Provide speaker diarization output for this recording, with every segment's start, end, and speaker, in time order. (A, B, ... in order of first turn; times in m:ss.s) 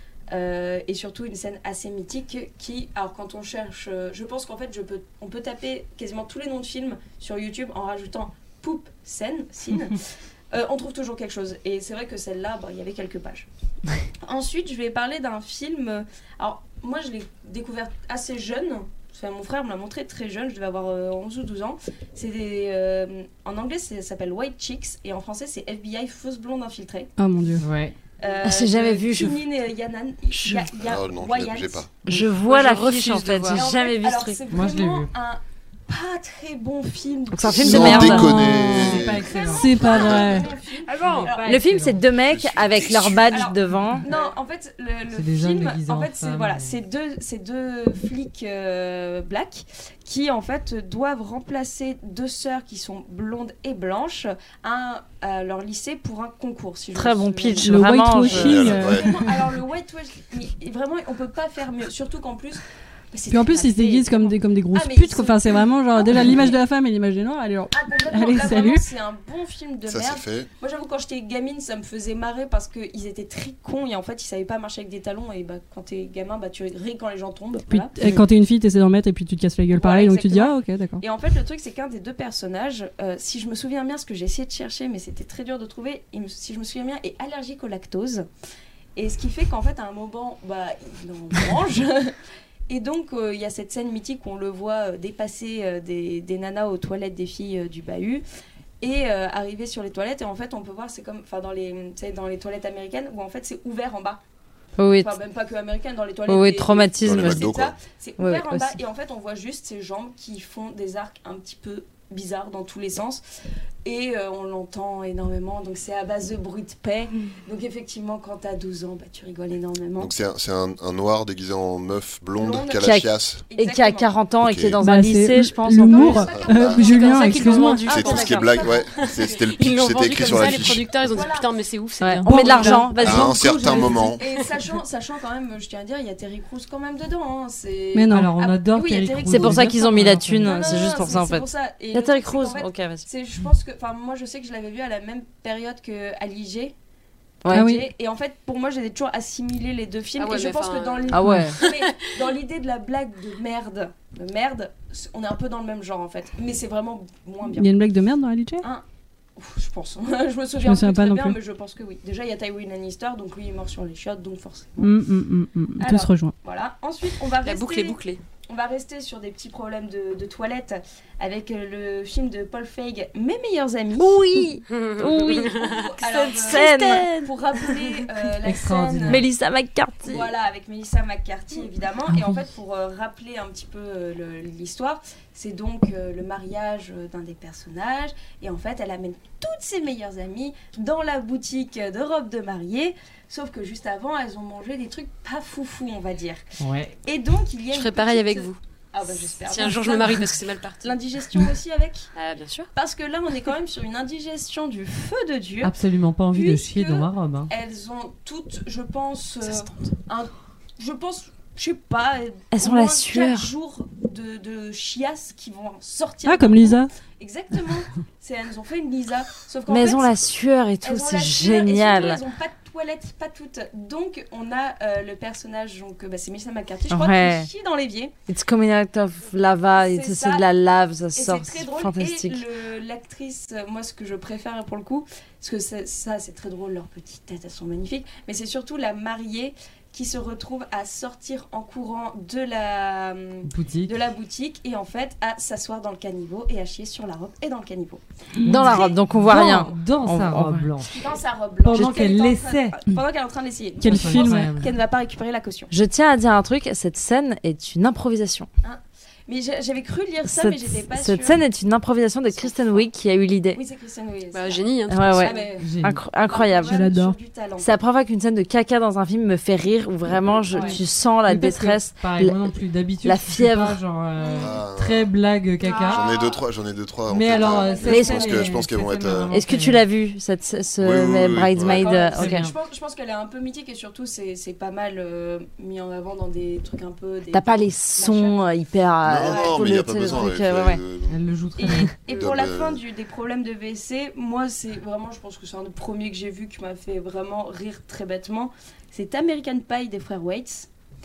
0:00.3-0:10.0 A
0:10.5-0:13.5 A
0:14.2-0:27.1 A
0:27.2-0:27.6 B
0:27.6-0:27.9 C
0:28.2-0:31.9 A
0:28.4-0:29.4 D
0:30.6-0:31.9 E
0:32.0-0:34.4 D
0:32.4-0:33.6 F
0:33.5-0:41.8 A
0:34.5-0:35.1 C
0:37.3-0:38.6 D
0:37.5-0:40.4 E
0:37.8-0:39.0 B
0:37.8-0:40.2 C
0:39.5-0:40.5 B
0:40.9-0:41.3 F
0:40.9-0:42.0 C
0:41.4-0:44.1 D
0:42.2-0:43.4 E
0:43.0-1:06.6 A
0:45.1-0:46.8 C
0:56.9-0:58.8 D
0:57.6-0:59.3 B
0:58.3-0:59.2 E
1:03.3-1:08.8 B
1:07.7-1:18.0 A
1:09.9-1:10.5 E
1:17.7-1:21.0 B
1:19.7-1:28.3 A
1:29.0-1:32.1 A
1:32.7-1:38.2 A
1:38.8-1:44.2 A
1:44.8-1:45.1 D
1:44.9-1:53.2 A
1:46.3-1:47.5 D
1:47.0-1:47.8 E
1:48.2-1:48.8 D
1:53.8-2:00.1 A
2:00.0-2:03.4 E
2:02.4-2:02.9 A
2:02.8-2:06.3 D
2:03.5-2:04.1 A
2:04.4-2:04.8 E
2:04.8-2:08.0 B
2:05.8-2:09.4 A
2:05.9-2:13.2 F
2:06.2-2:06.9 E
2:07.3-2:08.3 D
2:07.9-2:11.2 E
2:10.6-2:11.5 A
2:12.0-2:13.9 D
2:12.2-2:12.9 B
2:13.0-2:14.2 E
2:13.0-2:26.7 A
2:14.2-2:14.5 F
2:17.9-2:18.3 B
2:18.1-2:20.8 C
2:19.3-2:23.0 D
2:27.5-2:37.7 A
2:27.5-2:27.9 B
2:30.2-2:32.1 F
2:31.1-2:31.6 D
2:31.2-2:31.5 B
2:37.5-2:38.6 B
2:39.4-2:44.9 A
2:40.6-2:41.4 B
2:44.8-2:46.4 B
2:45.8-2:54.2 A
2:47.4-2:48.2 F
2:54.0-2:57.3 D
2:54.7-2:57.0 F
2:55.4-2:59.3 A
2:58.4-2:59.2 C
2:59.1-3:00.3 D
3:00.0-3:16.4 A
3:02.1-3:02.4 B
3:16.6-3:17.0 C
3:17.0-3:22.1 A
3:17.7-3:18.6 F
3:19.3-3:21.0 F
3:22.2-3:22.7 F
3:22.7-3:25.7 A
3:25.6-3:27.5 C
3:26.3-3:40.2 A
3:32.5-3:33.5 D
3:36.2-3:36.9 B
3:39.7-3:42.2 D
3:40.8-3:48.1 A
3:46.9-3:47.5 D
3:48.3-3:52.4 D
3:49.7-3:50.5 A
3:51.1-4:08.0 A
4:03.4-4:03.9 C
4:08.4-4:08.7 B
4:08.4-4:11.1 C
4:08.5-4:10.7 D
4:08.6-4:09.0 A
4:10.9-4:15.7 A
4:11.6-4:12.8 C
4:13.8-4:14.6 B
4:13.9-4:14.7 C
4:15.7-4:18.5 D
4:18.6-4:21.4 A
4:20.3-4:23.6 D
4:22.3-4:22.8 A
4:23.5-4:27.7 A
4:24.3-4:25.4 F
4:24.9-4:26.8 D
4:25.6-4:26.0 C
4:26.6-4:27.2 B
4:27.6-4:32.4 D
4:30.5-4:30.8 F
4:30.5-4:30.8 A
4:31.2-4:36.2 C
4:33.0-4:33.8 D
4:34.3-4:35.1 E
4:35.9-4:39.4 E
4:37.1-4:39.8 C
4:37.3-4:38.5 A
4:37.9-4:38.4 D
4:39.3-4:42.5 D
4:40.8-4:41.9 E
4:41.6-4:48.4 A
4:42.2-4:42.5 C
4:47.3-4:50.8 D
4:49.0-4:51.2 E
4:49.2-4:50.2 A
4:51.1-4:51.9 C
4:51.6-5:00.7 A
4:52.1-4:52.8 E